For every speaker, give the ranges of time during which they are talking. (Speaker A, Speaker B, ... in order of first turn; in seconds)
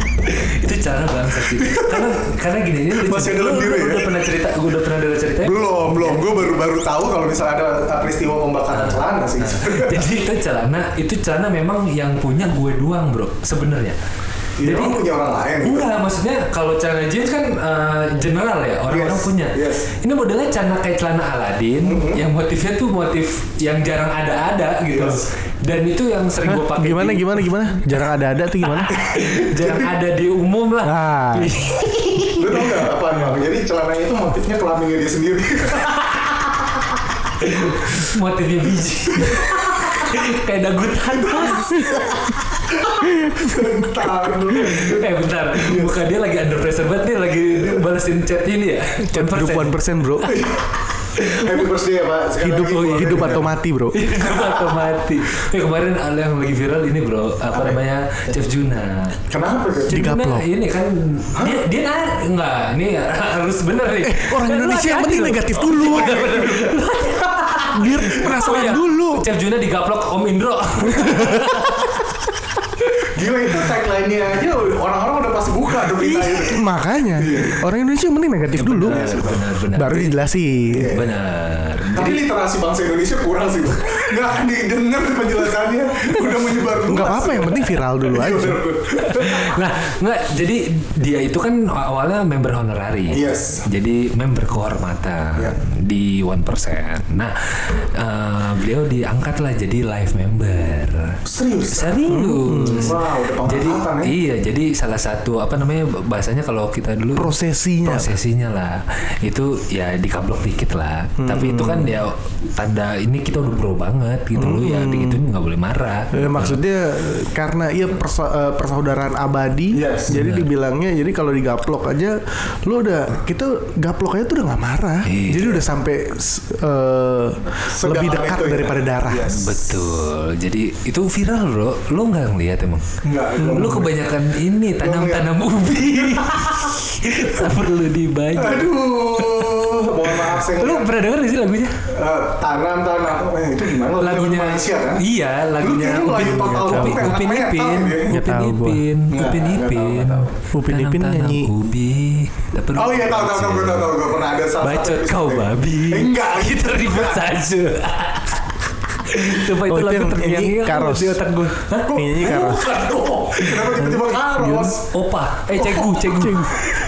Speaker A: 0.3-6.3, 8.7-14.0, 14.6-15.0, 15.6-27.5, 29.0-32.7, 37.4-42.1, 44.6-49.8, 51.2-51.5, 53.9-59.2, 59.9-71.9, 78.5-80.2, 80.9-82.2, 89.0-101.2, 101.7-116.6, 120.1-120.5, 125.0-125.6, 129.3-132.9, 133.4-139.5, 140.3-141.8, 144.0-154.0, 154.6-162.4, 163.4-163.7, 164.9-166.6
Speaker B: 1.5-2.2, 3.0-4.3, 5.4-10.1, 14.6-15.9, 18.9-19.9, 21.8-22.2, 24.9-25.2, 28.9-29.9, 32.4-36.9, 39.2-40.0, 41.2-45.9, 50.3-53.5, 54.2-54.9, 57.5-57.8, 59.3-60.0, 66.0-66.7, 73.1-77.7, 78.8-79.4, 80.7-81.1, 81.9-89.6, 93.1-93.7, 101.3-102.0, 102.8-104.2, 119.7-120.2, 127.7-129.6, 133.0-133.9, 134.8-136.7, 138.3-140.9, 141.9-145.0, 145.6-148.2, 149.1-150.3, 152.7-157.3, 161.8-164.9, 165.5-166.2
Speaker C: 26.4-28.9, 30.8-31.6, 43.2-43.6, 49.1-50.3, 52.4-54.0, 59.9-60.5, 64.0-66.4, 67.7-69.2, 71.0-71.6, 76.0-79.1, 79.7-80.9, 86.8-88.6, 102.1-103.0, 107.2-108.2, 111.2-112.0, 114.3-115.2, 116.1-129.3, 146.7-147.2, 148.1-148.8, 150.5-151.5, 159.7-161.2, 161.9-162.8, 163.7-164.7, 166.2-166.6